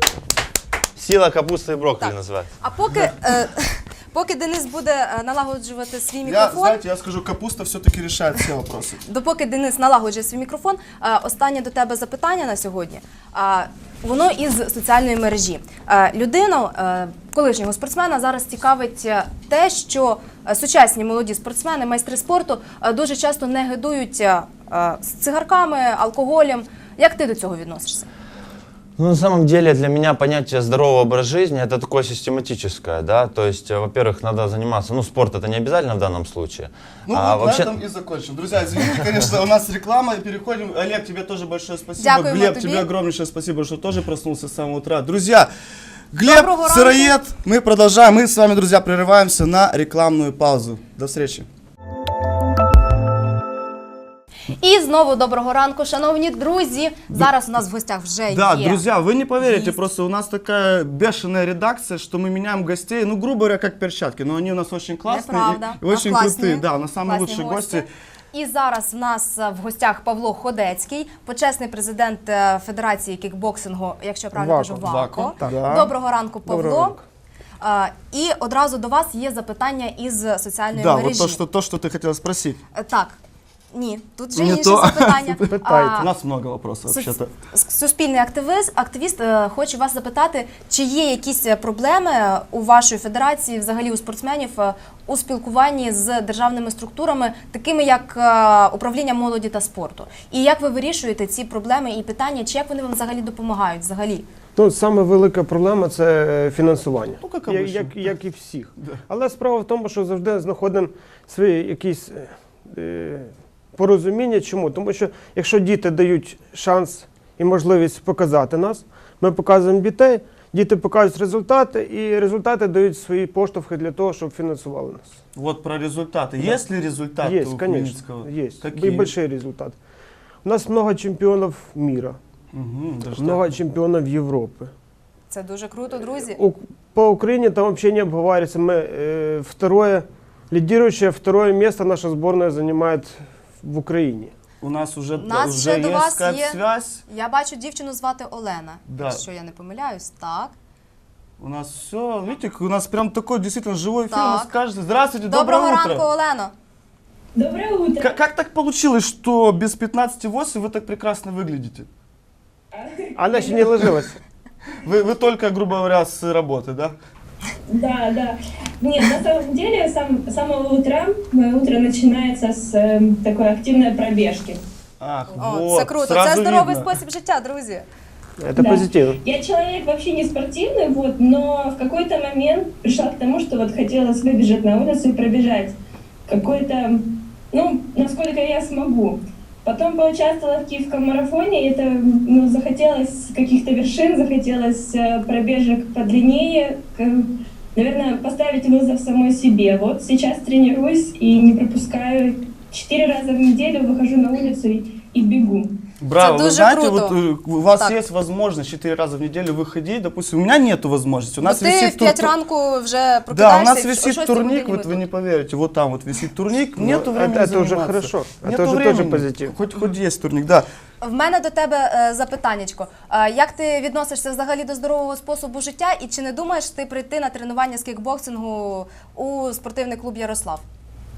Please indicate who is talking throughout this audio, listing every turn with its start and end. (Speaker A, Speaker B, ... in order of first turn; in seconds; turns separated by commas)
Speaker A: 1.0-2.5, Speaker B: 2.0-6.8, Speaker C: 6.2-9.0, Speaker B: 9.1-28.1, Speaker A: 29.0-37.7, Speaker C: 37.1-45.5, Speaker B: 42.0-42.9, Speaker C: 46.1-51.5, Speaker B: 46.2-47.2, Speaker B: 54.6-58.8, Speaker C: 58.3-67.9, Speaker B: 59.4-59.8, Speaker B: 65.1-77.0, Speaker D: 74.3-75.9, Speaker C: 74.8-75.9, Speaker D: 76.4-77.0, Speaker B: 77.6-81.4, Speaker C: 80.8-82.6, Speaker B: 82.7-83.2, Speaker B: 83.7-86.1, Speaker C: 84.3-87.3, Speaker D: 85.5-86.1, Speaker B: 86.9-104.2, Speaker D: 104.6-125.2, Speaker C: 107.2-108.2, Speaker C: 125.3-129.1, Speaker D: 127.2-129.8, Speaker D: 130.4-132.2, Speaker C: 132.5-133.6, Speaker D: 133.2-134.7, Speaker B: 135.3-136.4, Speaker D: 136.3-144.3, Speaker C: 144.6-147.0, Speaker B: 145.2-150.6, Speaker C: 148.9-149.2, Speaker C: 151.4-156.1, Speaker B: 154.1-154.5, Speaker B: 155.3-156.5, Speaker E: 157.4-158.2, Speaker C: 158.0-161.9, Speaker E: 162.8-163.7, Speaker D: 163.2-164.2, Speaker C: 164.8-166.9, Speaker E: 167.7-174.6, Speaker C: 175.0-176.9, Speaker B: 175.4-177.9, Speaker D: 178.4-179.2, Speaker E: 178.6-185.8, Speaker E: 186.3-205.7, Speaker C: 206.0-212.3, Speaker B: 206.2-207.2, Speaker B: 211.4-215.0, Speaker C: 213.3-220.7, Speaker D: 216.8-219.6, Speaker B: 221.0-230.6